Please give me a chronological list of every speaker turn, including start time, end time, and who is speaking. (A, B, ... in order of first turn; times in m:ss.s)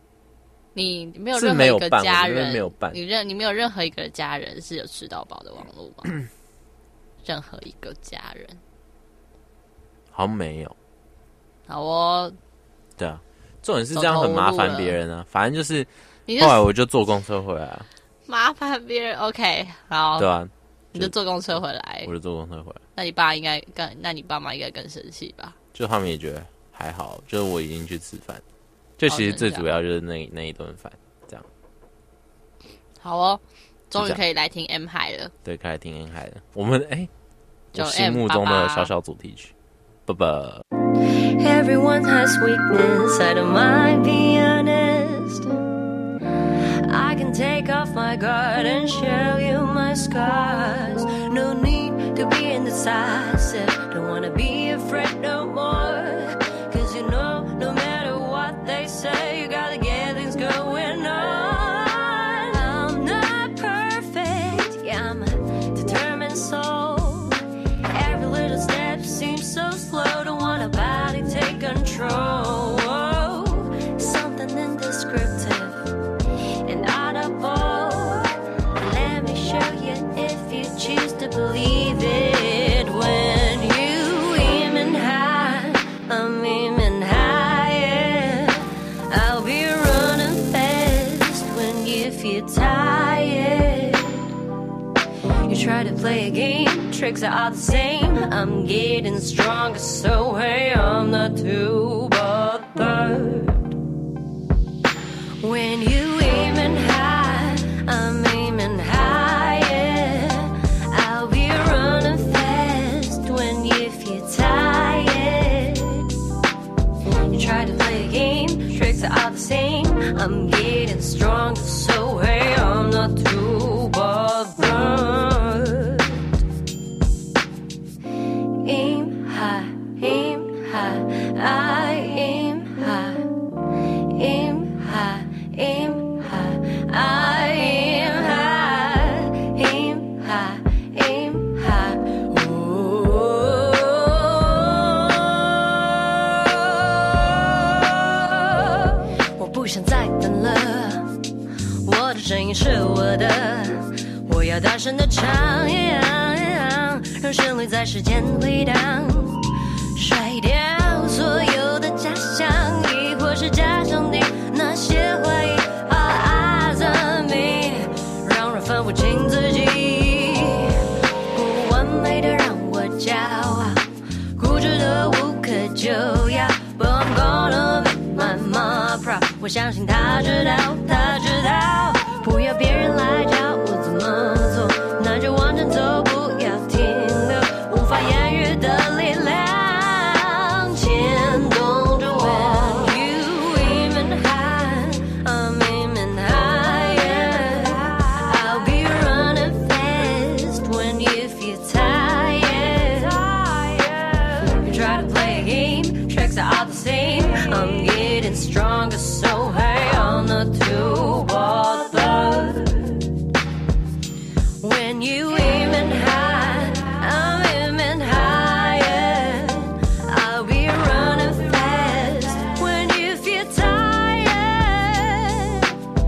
0:00.8-0:06.1 A
0:01.3-0:03.0 B
0:07.2-0:08.6 A
0:10.1-0:10.8 B
0:11.7-0:12.4 A
0:13.0-0:17.9 B
0:13.9-0:15.0 A
0:16.3-0:16.6 A
0:18.3-0:20.3 A
0:20.2-0:21.1 B
0:20.9-0:22.1 A
0:22.0-0:22.8 B
0:23.0-0:25.6 A
0:25.7-0:28.4 B
0:29.0-0:31.5 B
0:29.1-0:29.7 A
0:33.0-0:35.3 A
0:35.4-0:37.1 B
0:37.7-0:38.9 A
0:37.7-0:39.5 B
0:40.1-0:40.6 B
0:41.4-0:45.5 C
0:46.8-1:07.4 C
1:07.9-1:15.9 C
1:16.6-1:34.3 C
1:35.4-1:43.8 C
1:45.4-1:56.1 C
1:57.3-2:06.2 C
2:08.6-2:13.3 C
2:14.1-2:31.1 C
2:31.8-2:50.8 C
2:51.3-2:53.8 C
2:54.4-3:33.2 C
3:34.6-3:45.7 C